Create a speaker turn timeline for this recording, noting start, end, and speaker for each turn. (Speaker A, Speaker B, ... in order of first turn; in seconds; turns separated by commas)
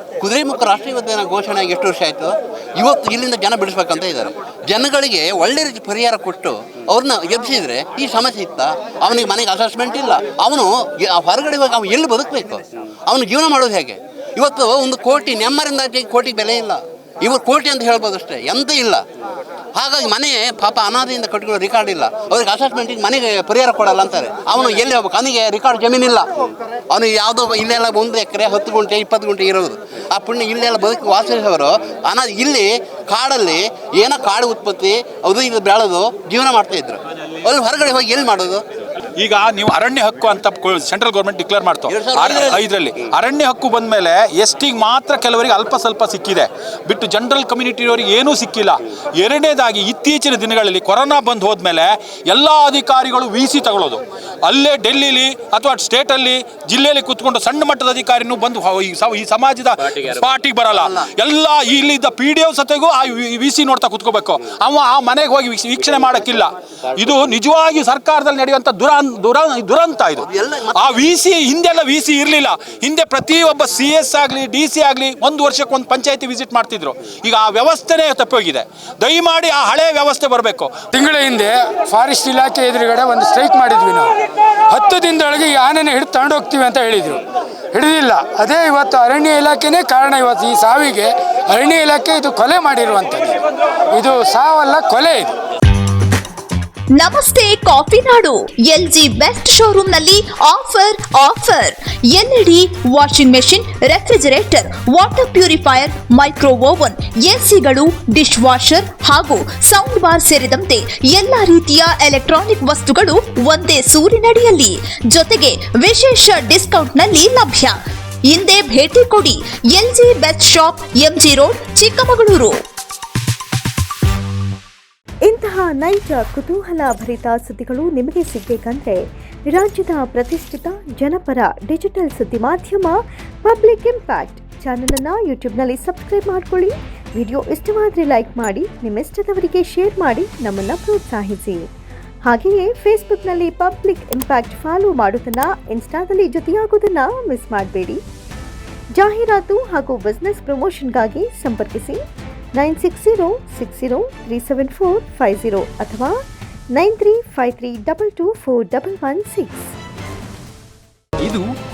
Speaker A: 0.2-19.0, Speaker A: 19.8-26.3, Speaker A: 26.9-38.6, Speaker B: 39.2-42.0, Speaker A: 41.9-42.7, Speaker B: 42.6-70.3, Speaker A: 60.7-61.1, Speaker A: 70.2-71.1, Speaker B: 71.0-80.8, Speaker C: 80.9-84.1, Speaker C: 84.7-87.2, Speaker C: 87.7-93.4, Speaker C: 94.0-95.3, Speaker D: 97.0-122.6, Speaker E: 125.3-141.7, Speaker E: 142.3-148.0, Speaker E: 149.0-152.0, Speaker E: 152.6-156.1, Speaker E: 156.8-159.7